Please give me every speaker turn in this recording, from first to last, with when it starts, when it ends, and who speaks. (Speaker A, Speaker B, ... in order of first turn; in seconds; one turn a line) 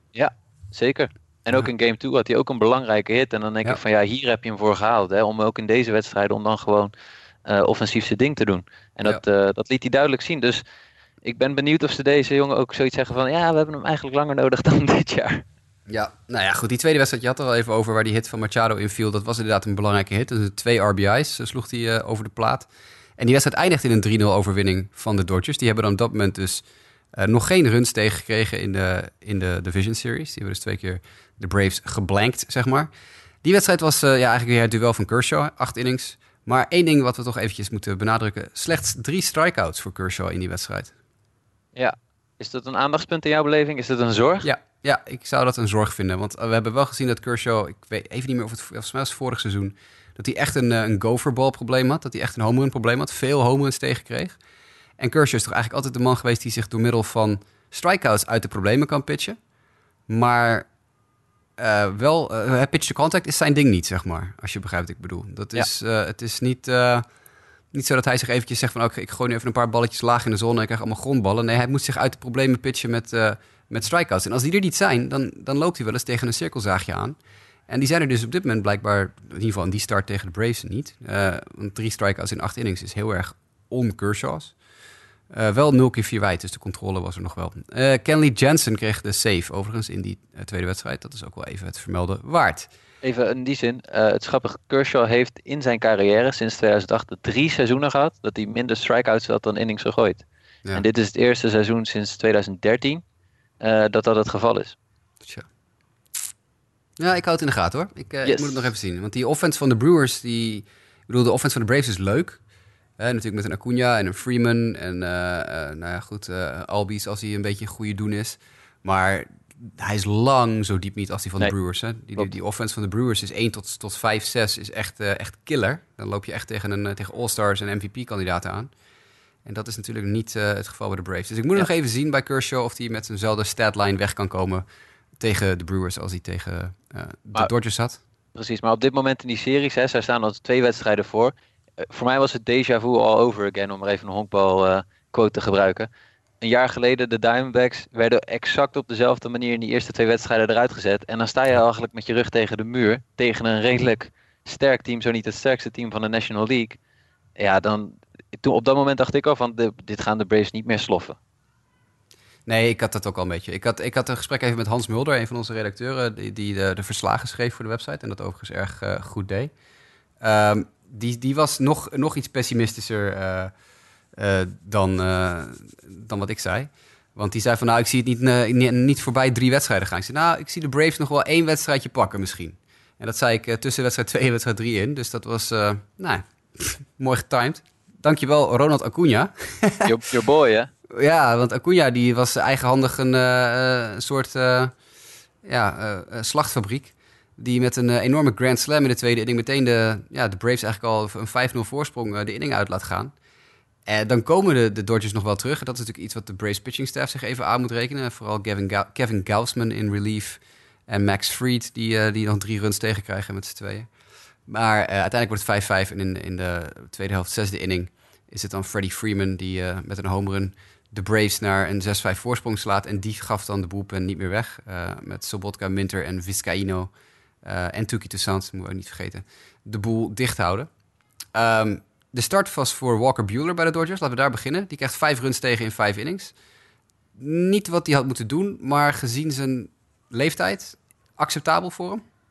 Speaker A: 0.1-6.9
Speaker A: 7.5-10.6
Speaker A: 11.2-15.4
Speaker B: 15.9-22.7
Speaker B: 23.2-26.6
Speaker B: 27.2-32.9
Speaker B: 33.4-40.9
Speaker A: 41.8-44.5
Speaker B: 44.4-54.4
Speaker B: 55.0-59.4
Speaker B: 60.1-60.7
Speaker B: 61.6-67.0
Speaker B: 67.7-77.2
Speaker B: 77.7-84.5
Speaker B: 85.3-92.7
Speaker A: 93.0-103.0
Speaker A: 103.6-104.8
Speaker B: 107.0-112.4
Speaker A: 108.2-108.7
Speaker B: 113.0-128.7
Speaker B: 129.4-134.6
Speaker B: 135.2-138.0
Speaker A: 138.3-141.3
Speaker A: 141.9-145.9
Speaker A: 146.4-156.8
Speaker A: 157.4-161.2
Speaker B: 162.5-169.5
Speaker B: 170.2-173.5
Speaker B: 174.2-189.9
Speaker A: 189.8-190.7
Speaker B: 190.9-194.7
Speaker B: 195.4-203.1
Speaker B: 203.9-213.9
Speaker B: 214.5-226.9
Speaker B: 227.4-230.7
Speaker B: 231.3-236.3
Speaker B: 237.2-242.0